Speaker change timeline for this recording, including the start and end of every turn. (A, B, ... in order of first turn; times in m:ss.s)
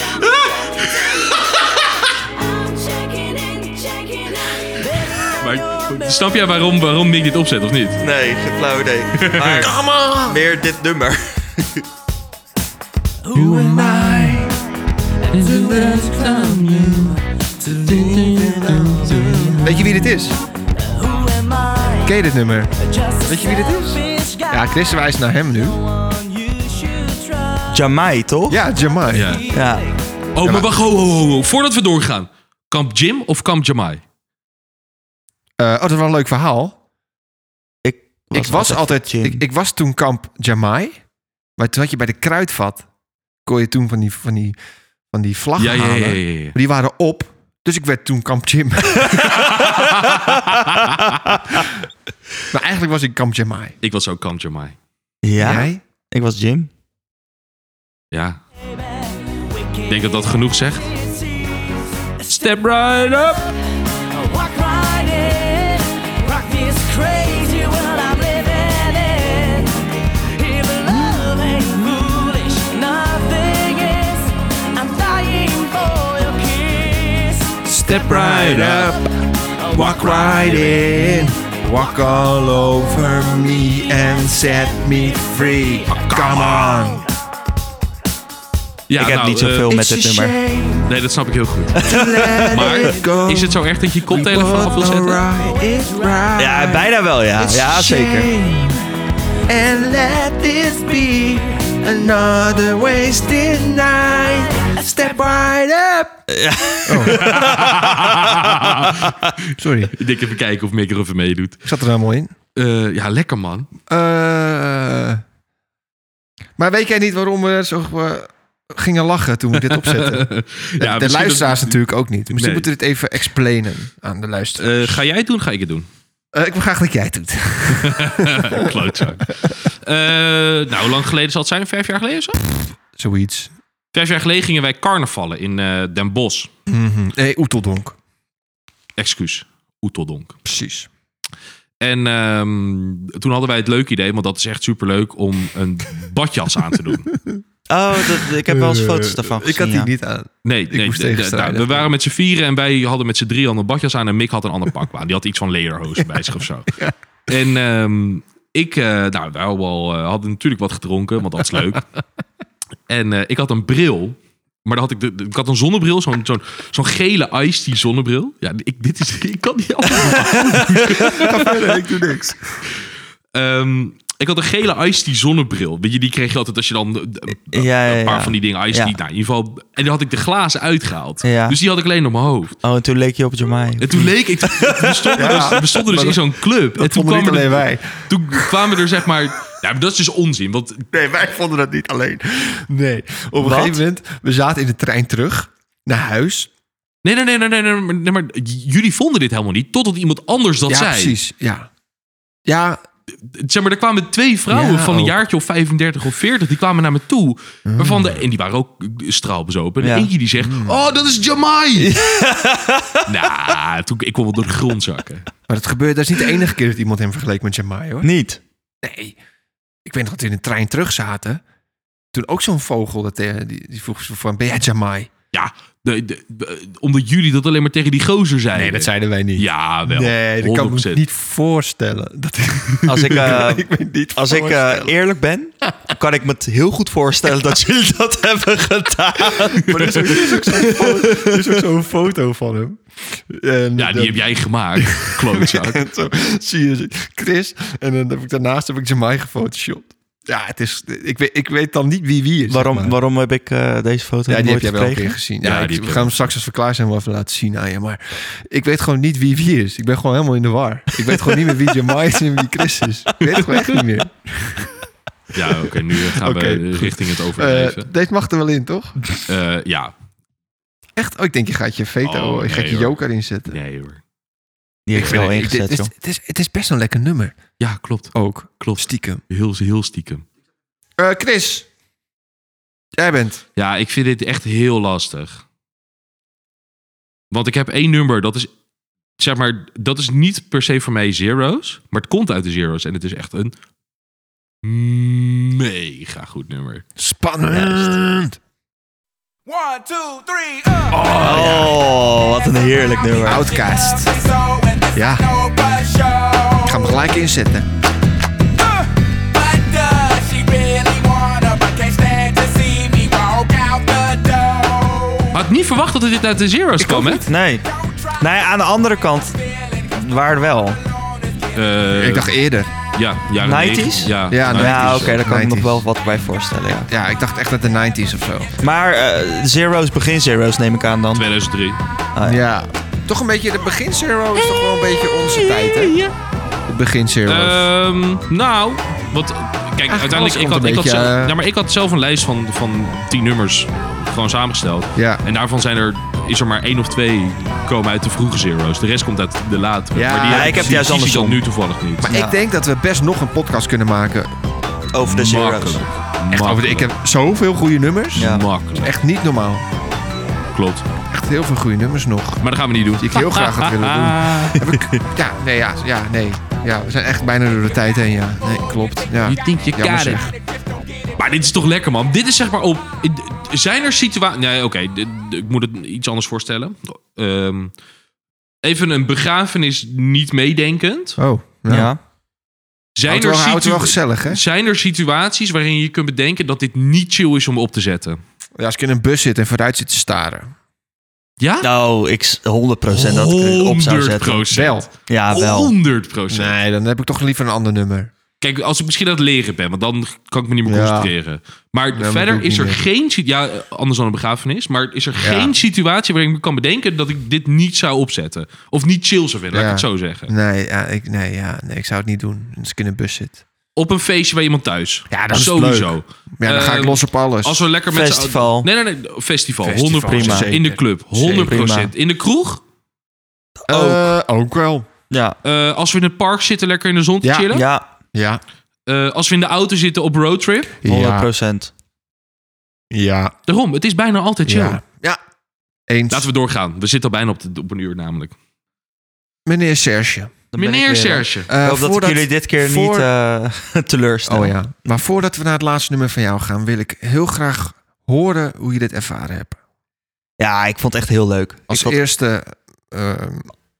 0:00.2-0:01.2 A
0:05.2-0:08.0 A
0:08.0-0:11.8 B
0:09.2-0:09.7 A
0:09.6-0:10.4 C
0:13.3-0:14.4 A
0:13.3-0:14.5 C
0:15.3-0:17.2 A
0:15.4-0:16.8 C
0:17.6-0:20.4 C
0:17.8-0:19.8 A
0:21.1-0:21.9 D
0:22.0-0:22.7 C
0:23.1-0:24.5 D
0:23.3-0:25.8 C
0:26.5-0:27.1 D
0:27.7-0:28.6 B
0:28.5-0:29.4 C
0:29.1-0:29.5 A
0:29.5-0:29.8 B
0:30.3-0:34.0 A
0:30.4-0:30.7 C
0:35.6-0:36.8 C
0:37.8-0:39.4 B
0:38.3-0:41.0 C
0:41.6-0:42.8 C
0:43.4-0:44.5 C
0:45.1-0:49.8 C
0:45.6-0:46.6 A
0:49.2-0:51.2 A
0:52.5-0:53.8 C
0:53.8-0:54.8 A
0:55.2-0:56.7 B
0:55.4-0:55.8 C
0:58.1-0:58.4 A
0:59.9-1:00.9 A
1:02.3-1:03.5 A
1:04.3-1:09.6 D
1:10.4-1:14.2 D
1:14.8-1:17.6 D
1:17.6-1:19.1 C
1:17.8-1:19.0 A
1:19.6-1:27.0 C
1:19.9-1:20.8 A
1:25.9-1:26.9 A
1:28.9-1:29.8 A
1:28.9-1:30.4 B
1:29.7-1:30.8 C
1:30.8-1:31.8 A
1:31.8-1:32.9 B
1:31.8-1:38.8 C
1:32.4-1:35.2 A
1:36.4-1:38.3 B
1:39.5-1:46.1 C
1:46.3-1:49.1 B
1:46.8-1:47.6 C
1:47.0-1:49.2 A
1:49.5-1:49.9 C
1:49.9-1:51.6 A
1:51.6-1:52.3 C
1:52.5-1:53.7 A
1:53.9-1:55.2 C
1:56.6-2:05.0 C
1:59.6-2:02.7 A
2:04.6-2:05.9 A
2:06.3-2:08.8 C
2:07.8-2:12.4 A
2:13.0-2:13.5 C
2:13.9-2:16.5 A
2:16.7-2:18.0 C
2:19.0-2:20.4 A
2:20.4-2:20.9 C
2:21.8-2:27.1 A
2:27.7-2:29.9 B
2:28.4-2:31.9 C
2:30.4-2:36.7 A
2:37.3-2:41.8 A
2:42.9-2:51.5 A
2:50.9-2:52.6 C
2:53.3-3:02.6 A
2:57.5-2:58.9 B
3:01.2-3:01.6 B
3:02.6-3:05.6 B
3:03.8-3:10.8 A
3:05.2-3:06.2 C
3:06.7-3:08.6 C
3:10.9-3:16.5 C
3:13.4-3:13.8 B
3:17.0-3:21.1 A
3:20.7-3:21.7 C
3:22.4-3:22.8 C
3:23.2-3:31.9 A
3:24.5-3:25.2 C
3:27.6-3:28.2 C
3:29.8-3:30.1 B
3:30.4-3:30.8 C
3:31.8-3:33.0 B
3:33.0-3:35.3 A
3:35.5-3:38.1 C
3:38.0-3:38.4 B
3:38.8-3:39.2 C
3:39.8-3:41.4 C
3:42.1-3:45.1 C
3:45.3-3:51.0 A
3:48.5-3:54.9 C
3:52.8-4:01.6 B
3:59.5-4:12.9 C
4:03.8-4:05.8 A
4:12.5-4:15.2 B
4:14.3-4:24.6 C
4:15.4-4:16.2 A
4:25.3-4:27.9 A
4:26.0-4:29.2 C
4:29.3-4:29.9 A
4:31.0-4:33.6 C
4:32.0-4:32.9 A
4:33.5-4:34.0 A
4:34.8-4:35.9 B
4:34.9-4:35.5 A
4:35.0-4:37.4 C
4:37.6-4:40.2 A
4:38.1-4:39.2 C
4:41.0-4:41.6 C
4:43.0-4:43.4 C
4:43.6-4:45.4 A
4:47.3-4:48.5 A
4:49.2-4:53.5 A
4:54.6-4:56.8 A
4:57.0-4:58.4 C
4:57.5-4:57.9 A
5:00.9-5:01.8 C
5:01.2-5:03.6 B
5:03.2-5:04.1 C
5:03.6-5:06.7 E
5:04.9-5:05.3 C
5:06.6-5:07.7 C
5:09.4-5:15.3 E
5:15.3-5:17.2 A
5:16.8-5:17.3 C
5:17.3-5:17.7 B
5:17.8-5:18.2 E
5:18.2-5:20.8 B
5:21.0-5:21.6 E
5:21.5-5:22.4 A
5:21.9-5:22.7 C
5:22.9-5:25.2 A
5:23.4-5:26.9 B
5:24.3-5:25.8 C
5:26.8-5:28.5 C
5:28.6-5:31.3 B
5:31.1-5:31.8 A
5:32.1-5:32.5 B
5:32.2-5:36.0 C
5:35.4-5:36.1 A
5:36.7-5:37.7 C
5:37.2-5:52.1 A
5:39.9-5:41.4 C
5:44.9-5:45.2 C
5:49.9-5:51.4 C
5:50.2-5:51.4 B
5:52.0-5:54.4 C
5:52.1-5:52.4 B
5:54.9-5:55.8 B
5:55.0-5:56.9 A
5:56.3-5:59.6 C
5:58.2-5:58.4 B
5:58.2-5:58.9 A
6:00.5-6:00.8 A
6:01.1-6:02.4 C
6:02.4-6:04.6 A
6:03.0-6:10.3 C
6:09.2-6:10.3 A
6:11.2-6:17.7 A
6:18.6-6:21.2 A
6:21.2-6:21.9 C
6:21.7-6:22.0 B
6:23.0-6:28.2 A
6:23.1-6:24.4 C
6:28.6-6:30.5 C
6:31.4-6:31.7 A
6:31.6-6:35.7 B
6:32.9-6:36.5 A
6:34.4-6:34.9 C
6:36.3-6:38.1 C
6:38.4-6:50.3 A
6:40.6-6:41.1 C
6:41.9-6:42.8 C
6:45.2-6:45.6 C
6:49.5-6:53.4 C
6:53.8-7:02.6 A
6:55.1-6:57.6 C
6:57.9-6:58.7 B
6:59.6-7:01.6 C
7:00.0-7:00.6 B
7:01.2-7:01.9 B
7:03.6-7:04.1 B
7:03.7-7:04.9 C
7:05.1-7:05.4 B
7:05.4-7:07.6 A
7:07.2-7:07.6 C
7:07.5-7:07.9 B
7:08.1-7:08.4 C
7:08.9-7:10.7 A
7:10.8-7:11.3 C
7:10.8-7:11.7 B
7:12.9-7:13.3 C
7:13.5-7:14.8 A
7:14.4-7:15.2 C
7:15.9-7:16.3 C
7:16.1-7:18.3 A
7:19.4-7:20.4 C
7:20.5-7:24.6 B
7:20.5-7:21.5 A
7:21.5-7:23.1 C
7:24.2-7:29.6 C
7:30.4-7:32.0 B
7:31.7-7:33.5 C